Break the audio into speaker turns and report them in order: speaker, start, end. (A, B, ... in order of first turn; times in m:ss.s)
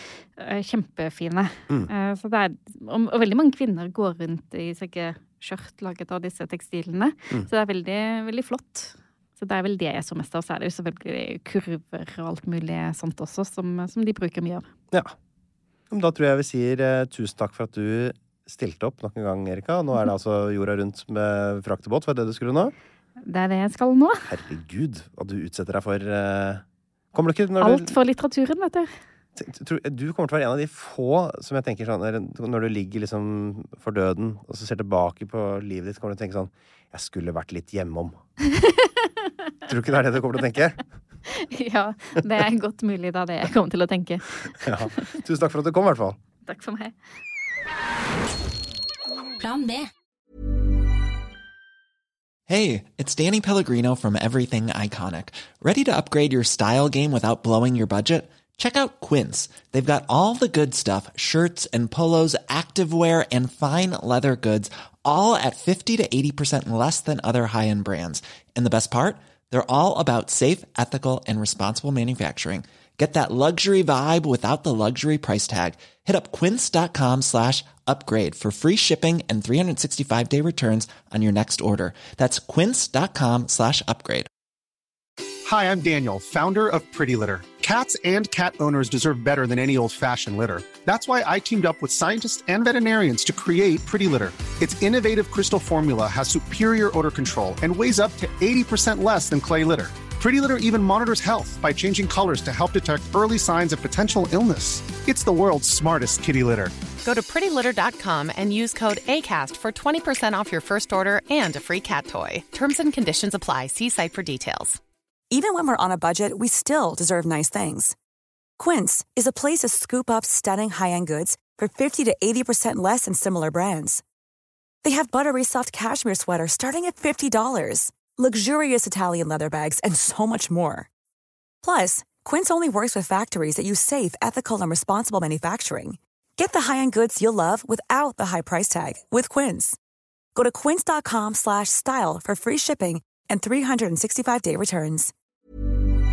0:00.4-0:14.7 A
0:15.9-0:22.7 B
0:23.2-0:24.3 A
0:24.3-0:26.6 B
0:27.1-0:27.9 B
0:27.6-0:28.9 A
0:29.4-0:38.2 B
0:38.6-0:38.9 A
0:39.6-0:40.8 B
0:41.4-0:44.7 A
0:44.6-0:46.2 B
0:46.5-0:46.9 A
0:52.5-1:24.3 C
1:25.5-1:46.7 D
1:47.0-1:54.8 E
1:55.3-1:58.0 F
1:58.6-2:04.0 F
2:04.8-2:10.9 F
2:11.6-2:19.8 F
2:20.3-2:25.1 F